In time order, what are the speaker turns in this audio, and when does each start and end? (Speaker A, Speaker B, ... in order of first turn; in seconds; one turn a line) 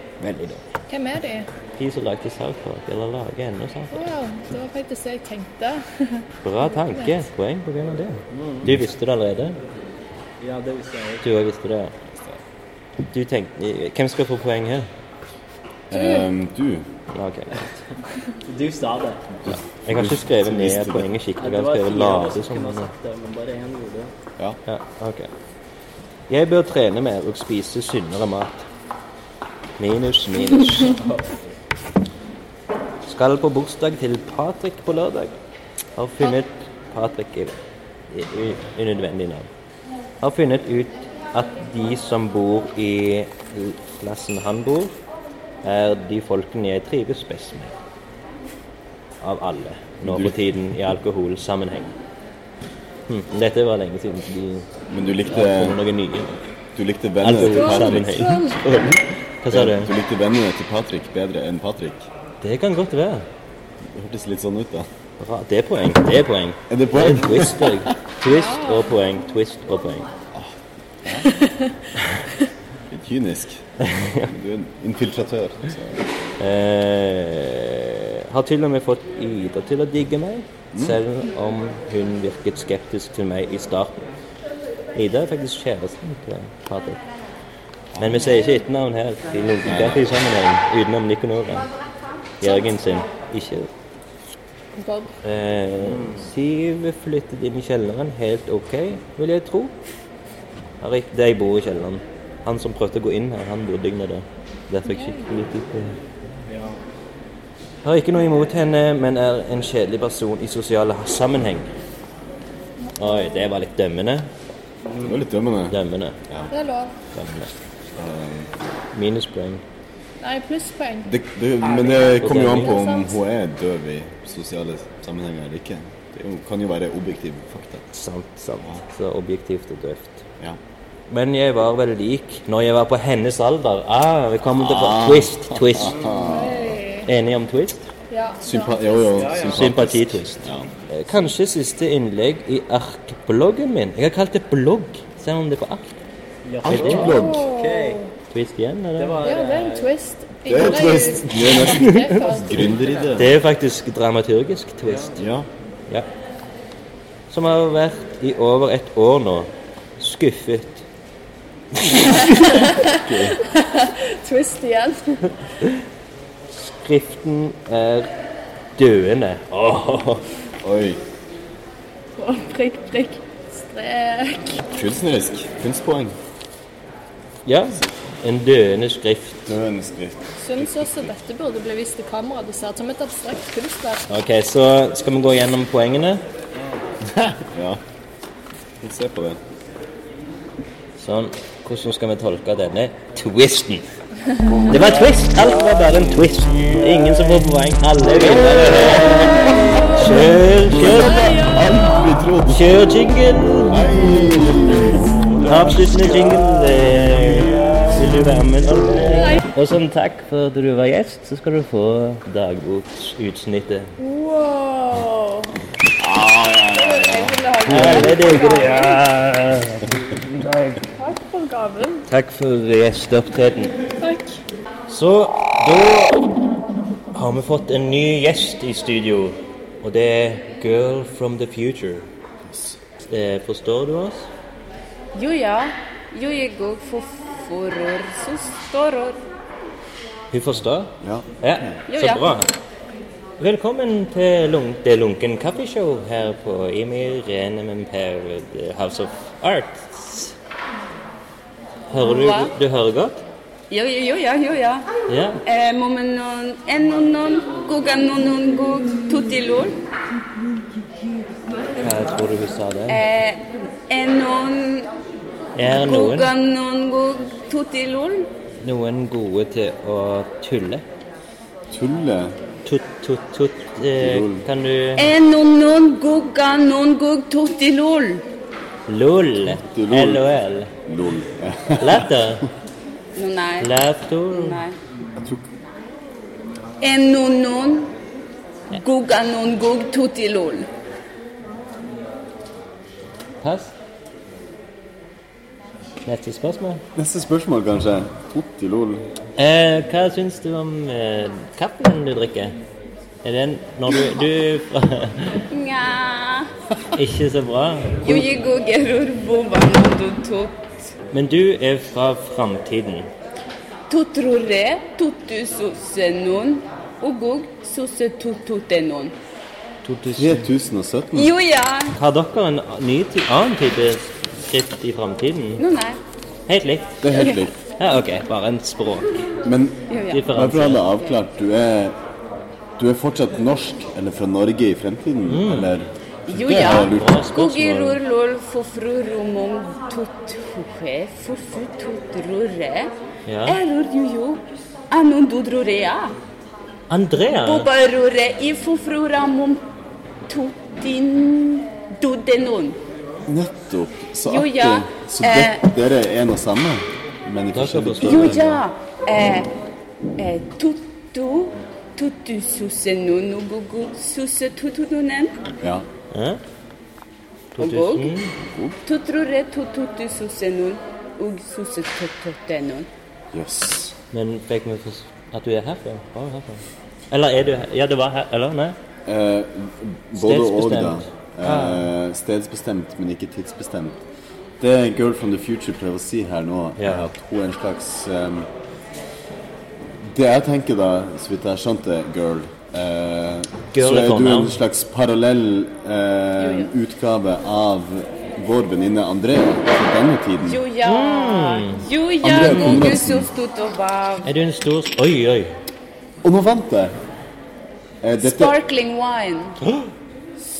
Speaker A: 0.2-0.6
Speaker B: 0.9-1.5
Speaker A: 1.8-4.1
Speaker B: 3.9-7.1
Speaker A: 6.4-9.6
Speaker C: 8.3-8.7
Speaker C: 10.4-11.2
Speaker A: 11.2-11.9
Speaker A: 13.1-14.9
Speaker D: 15.9-16.8
Speaker B: 15.9-16.2
Speaker A: 17.1-17.7
Speaker C: 18.4-19.4
Speaker D: 19.5-21.1
Speaker A: 19.8-22.9
Speaker C: 21.4-24.1
Speaker A: 24.7-25.3
Speaker A: 26.3-28.7
Speaker A: 29.8-31.0
Speaker A: 33.1-35.4
Speaker A: 36.0-37.6
Speaker A: 38.1-39.5
Speaker A: 40.2-45.0
Speaker A: 45.6-47.7
Speaker A: 49.2-51.9
Speaker D: 50.0-50.3
Speaker A: 53.1-54.7
Speaker D: 54.9-55.8
Speaker A: 55.3-56.4
Speaker D: 56.7-62.1
Speaker A: 57.2-59.9
Speaker B: 57.4-58.6
Speaker A: 62.4-63.2
Speaker D: 63.9-64.9
Speaker A: 65.2-70.1
Speaker D: 66.7-67.9
Speaker B: 68.2-68.9
Speaker D: 70.3-71.3
Speaker D: 72.9-73.6
Speaker A: 73.8-74.3
Speaker D: 74.2-76.0
Speaker A: 76.4-84.1
Speaker D: 80.7-81.0
Speaker A: 84.9-87.0
Speaker D: 87.9-88.4
Speaker A: 88.0-91.7
Speaker D: 89.6-90.1
Speaker A: 92.4-93.7
Speaker B: 94.7-95.1
Speaker A: 95.2-99.7
Speaker A: 100.8-106.0
Speaker B: 104.9-105.2
Speaker C: 106.5-106.8
Speaker A: 107.8-111.7
Speaker A: 113.0-114.3
Speaker C: 114.8-115.2
Speaker D: 115.0-116.5
Speaker A: 115.7-116.2
Speaker B: 116.5-116.9
Speaker A: 117.1-117.5
Speaker D: 117.9-118.6
Speaker A: 118.9-119.6
Speaker B: 120.2-121.1
Speaker D: 121.0-127.8
Speaker B: 121.9-123.2
Speaker A: 122.2-122.8
Speaker A: 127.9-130.2
Speaker A: 131.1-136.0
Speaker D: 134.5-136.8
Speaker B: 136.2-137.1
Speaker A: 137.0-137.9
Speaker B: 138.1-139.3
Speaker D: 138.4-140.7
Speaker C: 139.1-139.6
Speaker A: 139.4-146.0
Speaker C: 146.4-148.0
Speaker D: 146.6-147.5
Speaker A: 146.7-147.1
Speaker B: 147.0-148.1
Speaker A: 148.3-149.3
Speaker C: 149.0-149.9
Speaker B: 149.2-152.8
Speaker D: 150.4-153.3
Speaker A: 151.4-152.2
Speaker A: 153.2-155.2
Speaker D: 155.2-155.5
Speaker A: 157.3-160.8
Speaker B: 162.0-165.3
Speaker D: 162.8-163.4
Speaker A: 166.6-168.1
Speaker A: 168.8-170.2
Speaker D: 170.6-171.0
Speaker B: 172.2-174.6
Speaker D: 174.7-176.1
Speaker A: 177.4-179.4
Speaker D: 179.4-181.1
Speaker B: 180.4-184.0
Speaker A: 184.1-186.2
Speaker D: 187.1-187.8
Speaker D: 188.8-189.4
Speaker A: 191.0-193.8
Speaker A: 194.7-201.5
Speaker D: 198.7-199.4
Speaker D: 200.8-202.9
Speaker A: 202.5-204.3
Speaker D: 203.7-206.5
Speaker A: 205.4-213.9
Speaker D: 207.1-207.7
Speaker B: 214.0-215.5
Speaker D: 216.0-218.1
Speaker B: 216.7-219.0
Speaker A: 217.7-220.8
Speaker B: 221.0-222.1
Speaker A: 222.1-223.7
Speaker B: 224.0-224.4
Speaker A: 224.9-226.3
Speaker A: 227.1-232.1
Speaker D: 232.5-232.8
Speaker A: 233.1-234.3
Speaker E: 235.1-239.2
Speaker A: 240.3-242.5
Speaker D: 241.0-241.8
Speaker E: 241.9-242.4
Speaker A: 243.4-250.3
Speaker A: 251.9-253.2
Speaker E: 252.0-252.5
Speaker E: 253.7-254.9
Speaker A: 255.1-255.4
Speaker E: 255.4-259.8
Speaker A: 261.8-263.0
Speaker E: 262.9-264.9
Speaker A: 265.6-266.3
Speaker E: 265.6-268.3
Speaker A: 268.6-270.8
Speaker D: 271.7-272.3
Speaker A: 272.6-275.1
Speaker D: 274.0-274.4
Speaker E: 275.0-278.2
Speaker A: 278.9-280.7
Speaker D: 279.5-282.1
Speaker A: 281.8-282.5
Speaker E: 283.1-283.7
Speaker A: 283.6-284.6
Speaker E: 284.3-284.8
Speaker D: 285.1-285.4
Speaker E: 286.8-287.9
Speaker E: 288.7-290.7
Speaker A: 293.4-293.7
Speaker A: 296.0-296.8
Speaker D: 296.9-299.1
Speaker A: 299.4-302.6
Speaker A: 303.2-305.4
Speaker E: 305.5-306.5
Speaker A: 306.9-308.3
Speaker E: 308.0-310.9
Speaker A: 311.1-313.1
Speaker E: 313.9-319.1
Speaker A: 319.8-320.5
Speaker D: 320.1-321.3
Speaker E: 321.1-321.9
Speaker A: 321.9-325.6
Speaker E: 325.6-326.0
Speaker A: 326.5-327.0
Speaker D: 327.0-327.6
Speaker A: 327.8-329.3
Speaker D: 329.4-331.9
Speaker E: 329.9-330.3
Speaker A: 330.1-330.9
Speaker D: 332.8-337.2
Speaker A: 335.2-335.7
Speaker E: 336.3-342.9
Speaker A: 336.4-338.0
Speaker A: 343.3-343.6
Speaker E: 343.4-346.1
Speaker A: 346.9-347.7
Speaker E: 347.3-349.6
Speaker E: 350.3-352.8
Speaker D: 353.2-358.5
Speaker E: 354.2-355.6
Speaker A: 357.5-358.6
Speaker E: 358.0-359.5
Speaker E: 360.2-365.4
Speaker D: 365.6-365.9
Speaker A: 366.1-366.4
Speaker A: 367.6-368.3
Speaker E: 367.6-368.1
Speaker E: 368.9-372.9
Speaker D: 373.3-373.9
Speaker A: 374.1-378.8
Speaker D: 379.1-384.0
Speaker A: 380.1-381.9
Speaker D: 384.6-388.5
Speaker A: 386.8-387.1
Speaker D: 390.0-400.6
Speaker A: 393.7-394.6
Speaker E: 396.4-396.7
Speaker E: 400.4-404.3
Speaker A: 400.8-402.9
Speaker D: 402.2-403.3
Speaker A: 404.2-405.5
Speaker D: 406.2-406.9
Speaker D: 408.0-408.6
Speaker E: 408.2-409.6